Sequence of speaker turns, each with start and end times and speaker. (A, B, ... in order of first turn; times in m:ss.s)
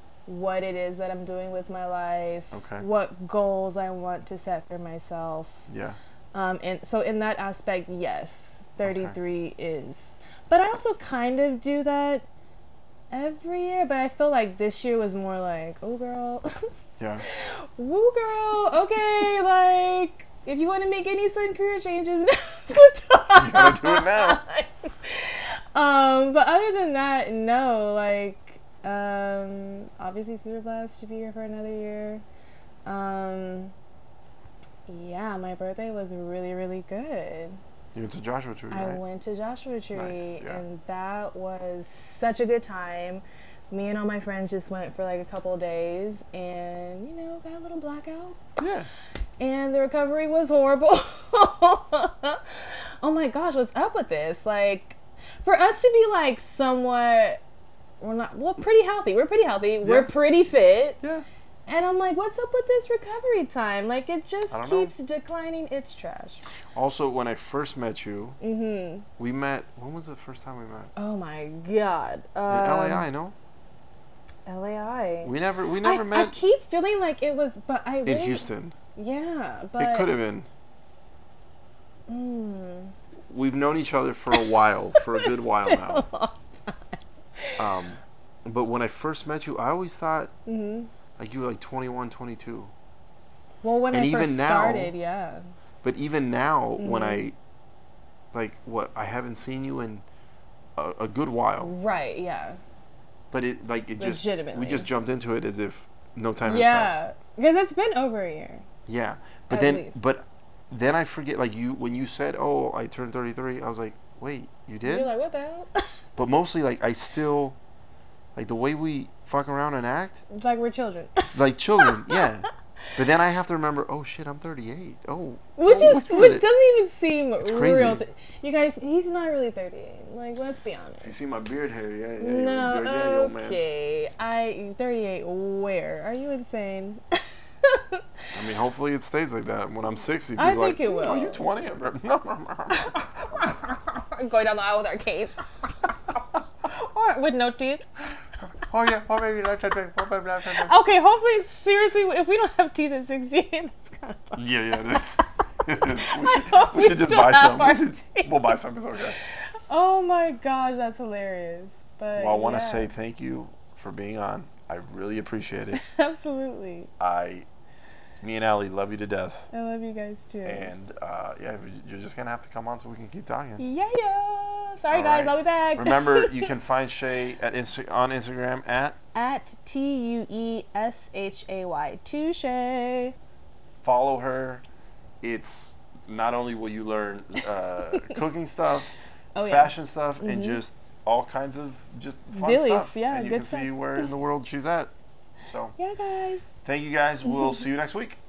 0:00.2-0:05.6 A
0:02.5-0:02.8 B
0:05.7-0:06.0 B
0:06.3-0:12.2 A
0:08.8-0:09.1 B
0:13.1-0:16.7 A
0:17.0-0:17.2 B
0:17.2-0:32.2 A
0:23.3-0:24.4 B
0:32.8-0:33.7 A
0:34.9-0:37.6 A
0:37.9-0:39.0 B
0:38.7-0:48.4 A
0:39.9-0:40.6 B
0:48.6-0:48.9 B
0:49.4-0:57.4 A
0:58.0-1:01.0 A
0:59.8-1:00.1 B
1:01.0-1:01.2 B
1:01.7-1:06.4 A
1:04.5-1:04.9 B
1:06.7-1:08.4 B
1:08.4-1:09.1 A
1:09.2-1:10.9 B
1:11.0-1:13.1 A
1:12.5-1:13.3 B
1:14.4-1:20.1 A
1:15.2-1:16.4 B
1:18.0-1:18.7 B
1:19.8-1:20.5 B
1:22.1-1:22.9 A
1:23.3-1:26.0 B
1:24.3-1:27.6 A
1:27.6-1:30.3 B
1:30.4-1:30.9 A
1:31.2-1:32.7 B
1:33.6-1:35.5 A
1:33.9-1:34.9 B
1:35.8-1:37.3 B
1:36.8-1:37.2 A
1:38.3-1:40.0 B
1:40.8-1:41.7 B
1:41.6-1:42.6 A
1:43.3-1:47.0 B
1:44.0-1:44.9 A
1:46.4-1:48.6 A
1:48.8-1:55.1 B
1:49.5-1:49.9 A
1:54.8-1:55.8 A
1:56.2-1:57.6 B
1:58.3-2:00.2 B
2:00.3-2:02.3 A
2:01.3-2:06.4 B
2:05.6-2:11.2 A
2:07.4-2:08.0 B
2:11.0-2:13.6 B
2:12.2-2:18.0 A
2:18.3-2:22.9 B
2:20.4-2:21.4 A
2:22.7-2:27.8 A
2:28.6-2:30.8 B
2:30.6-2:34.7 A
2:34.3-2:39.2 B
2:35.8-2:38.6 A
2:39.7-2:42.9 A
2:42.1-2:45.8 B
2:45.7-2:46.9 A
2:47.0-2:47.5 B
2:48.2-2:49.5 B
2:49.5-2:50.7 A
2:50.4-2:53.6 B
2:53.6-2:56.5 A
2:54.9-2:59.0 B
2:59.1-3:03.1 A
3:03.8-3:04.6 B
3:05.2-3:14.9 B
3:09.3-3:10.6 A
3:12.3-3:14.1 A
3:15.4-3:15.7 B
3:15.8-3:16.5 A
3:16.6-3:18.2 B
3:17.3-3:17.6 A